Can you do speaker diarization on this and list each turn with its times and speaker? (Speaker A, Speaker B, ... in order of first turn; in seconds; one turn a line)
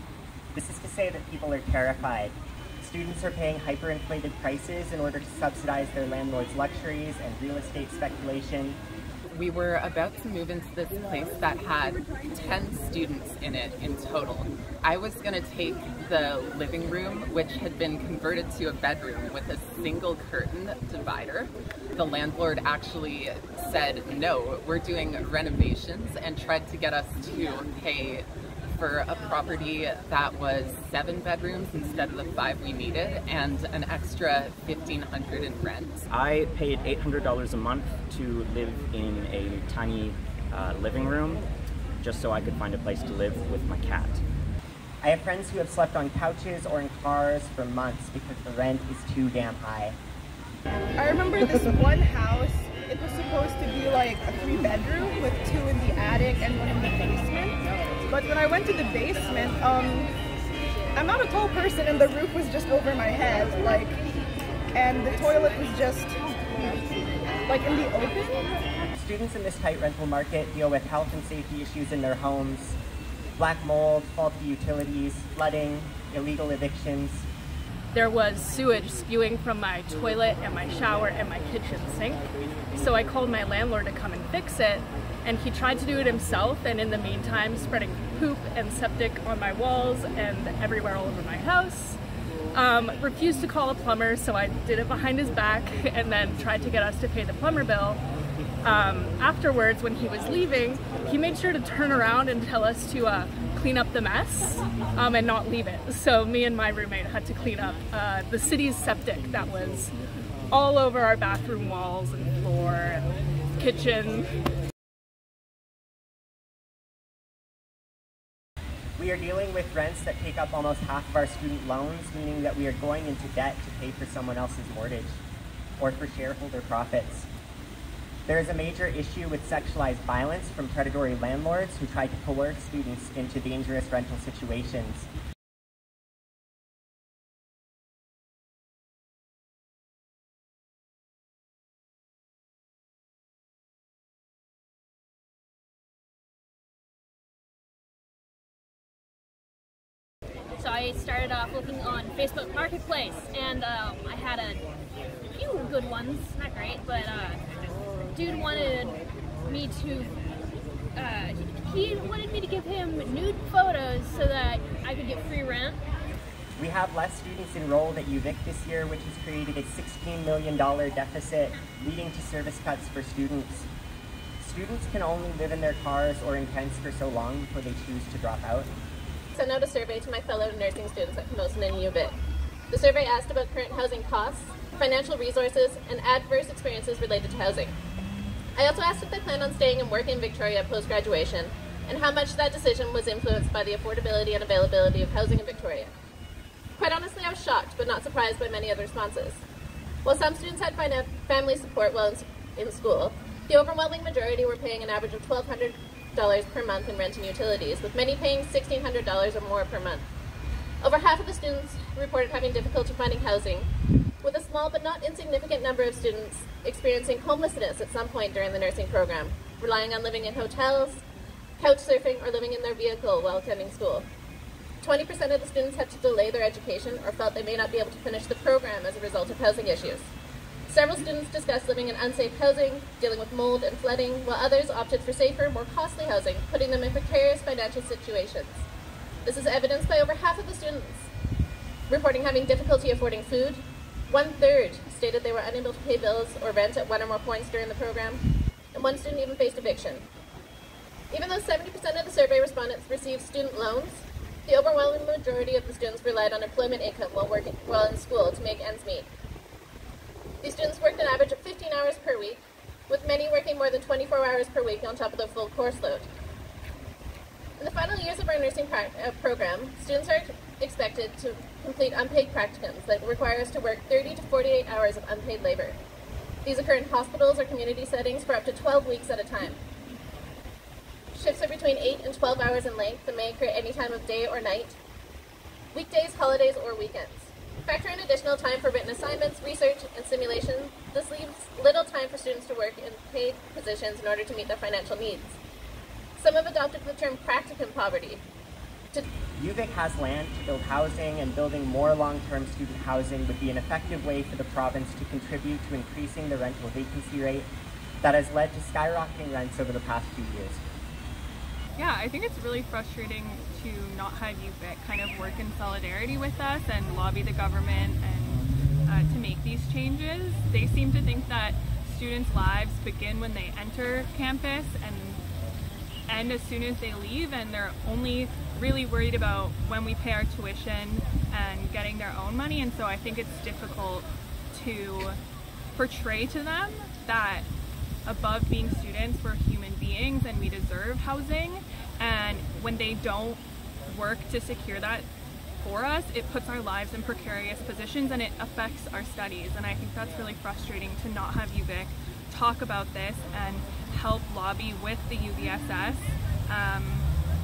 Speaker A: 0.5-8.8
Speaker B: 9.3-36.0
Speaker C: 36.1-41.4
Speaker C: 42.0-44.2
Speaker A: 45.0-50.0
Speaker D: 51.0-57.6
Speaker D: 58.1-60.1
Speaker D: 60.9-64.0
Speaker D: 64.7-68.4
Speaker A: 68.9-72.8
Speaker A: 73.4-77.3
Speaker E: 77.9-82.2
Speaker E: 82.7-92.0
Speaker E: 92.5-98.0
Speaker E: 98.6-109.9
Speaker E: 110.5-114.3
Speaker A: 119.0-125.2
Speaker A: 125.8-127.3
Speaker A: 128.2-135.1
Speaker F: 150.6-154.6
Speaker F: 155.3-157.4
Speaker F: 158.1-160.1
Speaker F: 160.9-165.8
Speaker A: 166.6-173.7
Speaker A: 174.4-178.7
Speaker G: 179.3-182.1
Speaker G: 182.7-187.7
Speaker G: 188.6-195.9
Speaker G: 196.8-199.4
Speaker G: 200.0-210.0
Speaker G: 210.8-213.7
Speaker G: 214.2-221.0
Speaker G: 221.6-224.1
Speaker G: 224.8-230.1
Speaker G: 230.7-238.6
Speaker G: 239.2-241.1
Speaker G: 241.9-248.2
Speaker G: 248.7-250.0
Speaker G: 251.1-259.1
Speaker G: 260.4-266.1
Speaker G: 267.6-275.8
Speaker G: 276.4-279.6
Speaker G: 281.1-284.8
Speaker G: 285.7-295.4
Speaker G: 296.2-298.2
Speaker A: 299.3-307.5
Speaker A: 308.0-310.6
Speaker H: 311.8-325.2
Speaker H: 326.1-335.2
Speaker H: 335.7-337.4
Speaker H: 338.1-345.1
Speaker H: 345.6-357.1